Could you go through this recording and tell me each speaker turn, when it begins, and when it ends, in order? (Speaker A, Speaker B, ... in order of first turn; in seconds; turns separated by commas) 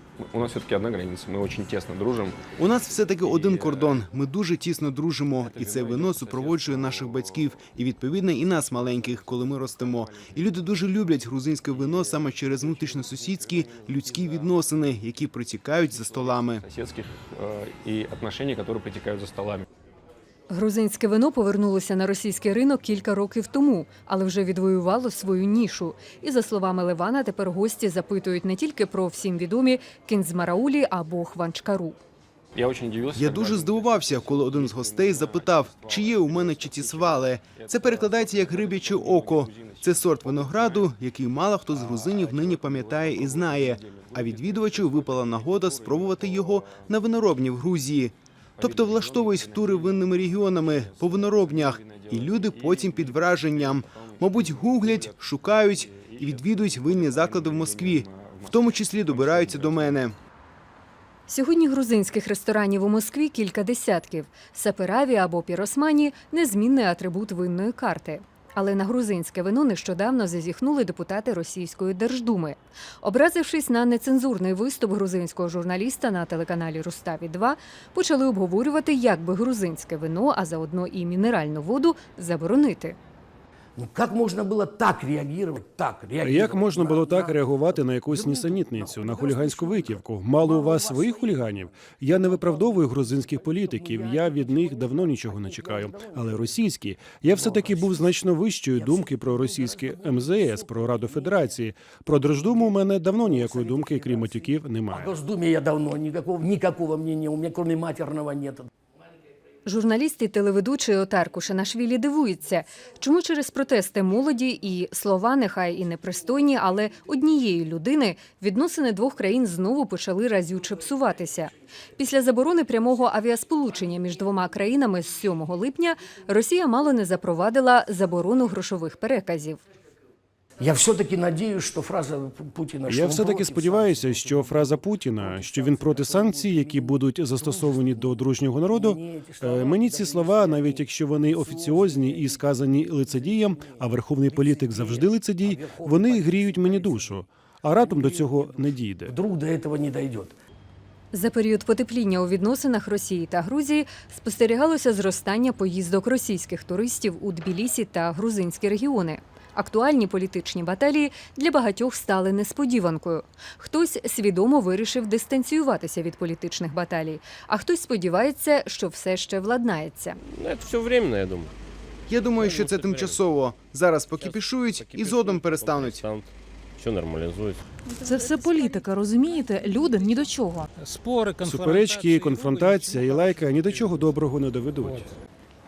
Speaker A: 0.2-2.5, Speaker B: 2.6-16.6, Speaker A: 3.2-4.1, Speaker A: 5.4-7.6, Speaker A: 8.4-11.0, Speaker A: 11.6-14.7, Speaker A: 15.9-19.6, Speaker C: 20.5-32.0, Speaker A: 32.5-40.9, Speaker B: 33.1-60.1, Speaker D: 37.1-37.6, Speaker A: 41.7-47.1, Speaker A: 48.6-60.0, Speaker C: 61.3-83.0, Speaker D: 83.8-96.6, Speaker E: 86.2-105.1, Speaker D: 97.2-98.1, Speaker D: 98.7-101.6, Speaker D: 102.3-108.7, Speaker C: 109.6-129.6, Speaker D: 130.6-147.2, Speaker E: 132.8-149.1, Speaker D: 147.8-150.3, Speaker C: 151.1-170.2, Speaker F: 170.2-171.5, Speaker B: 172.1-176.0, Speaker F: 172.3-173.2, Speaker F: 174.2-177.6, Speaker G: 177.9-180.7, Speaker H: 180.8-183.9, Speaker E: 181.4-185.1